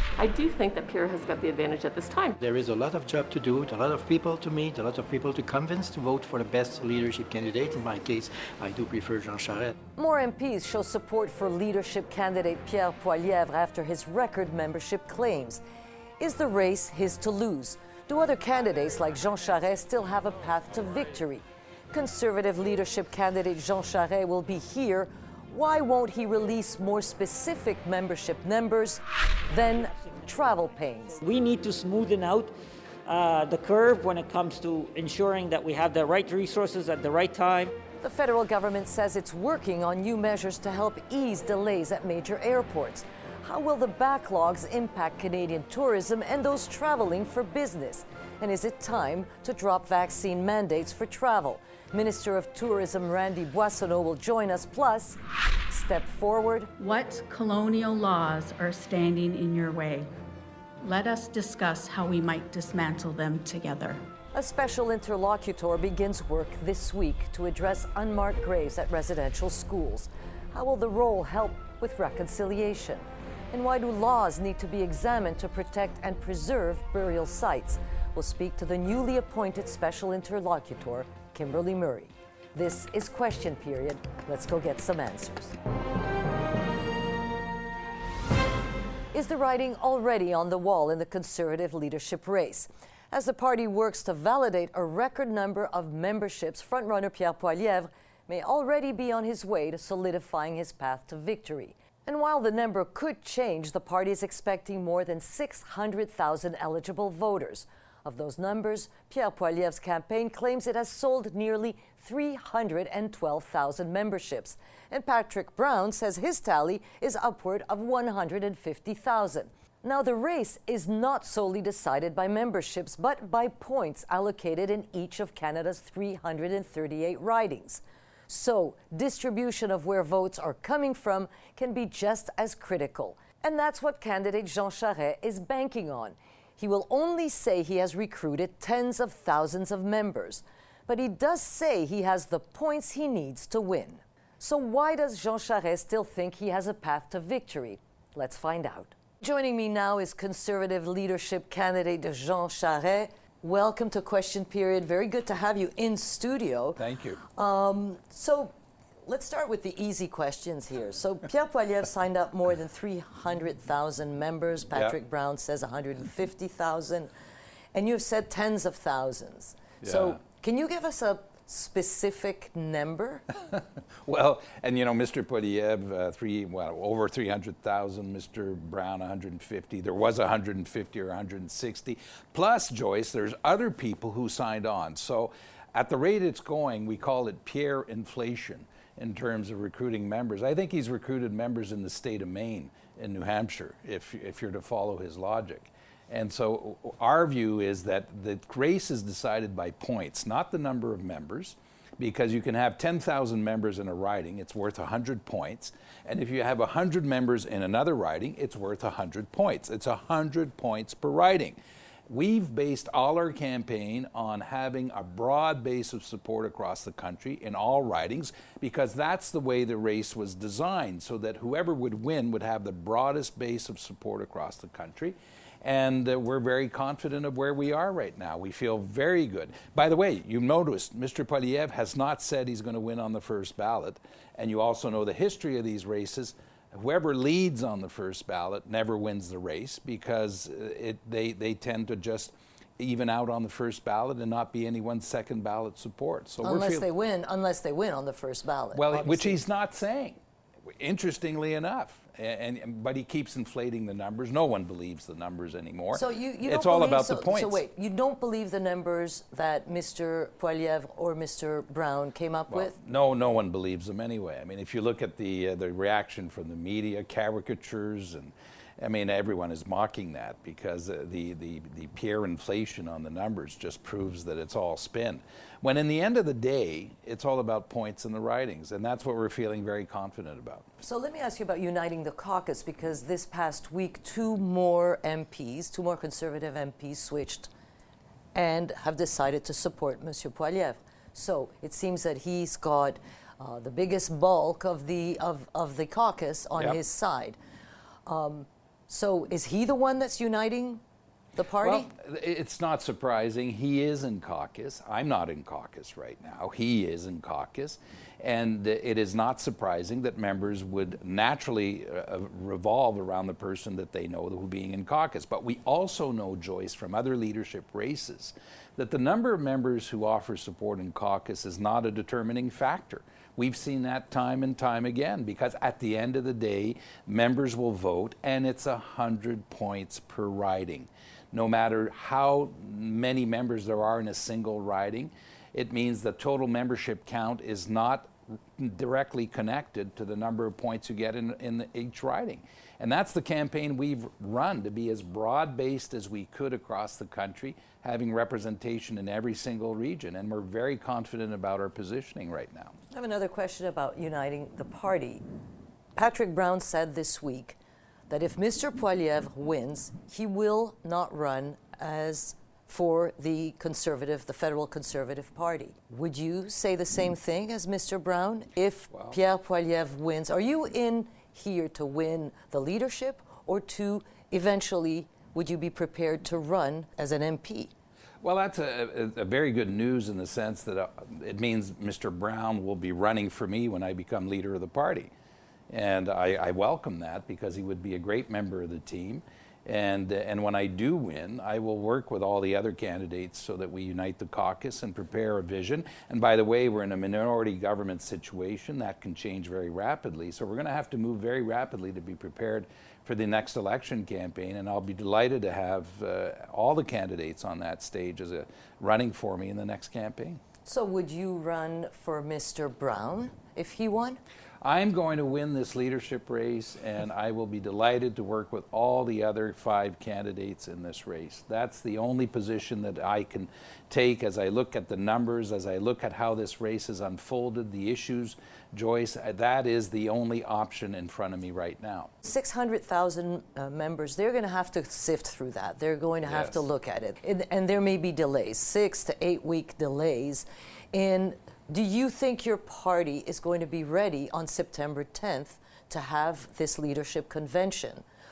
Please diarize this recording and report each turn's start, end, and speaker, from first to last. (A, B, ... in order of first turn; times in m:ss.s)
0:00.2-0:02.4 A
0:02.4-0:09.7 B
0:10.0-0:15.6 C
0:16.2-0:31.2 C
0:31.2-0:32.5 D
0:33.0-0:37.7 D
0:38.0-0:55.2 C
0:55.7-0:56.7 C
0:56.8-1:00.1 E
1:00.8-1:04.0 E
1:04.3-1:25.6 C
1:29.1-2:36.8 C
2:36.8-2:37.2 F
2:37.3-2:38.5 C
2:39.0-2:47.1 C
2:47.7-2:53.2 C
2:49.8-2:50.2 F
2:53.5-4:06.9 F
4:06.4-4:09.4 C
4:08.7-4:17.6 F
4:15.9-4:22.7 C
4:22.5-4:40.7 F
4:40.8-4:47.5 C
4:48.3-4:57.4 C
4:58.0-5:00.8 C
5:01.3-5:01.9 C
5:01.6-5:52.7 F
5:52.9-5:55.2 C
5:56.0-5:57.6 C
5:58.1-6:17.7 C
6:08.9-6:09.2 F
6:18.2-6:25.1 F
6:25.7-6:50.4 F
6:50.6-6:54.2 C
6:54.6-7:12.1 F
7:12.2-7:28.0 C
7:16.2-7:16.6 F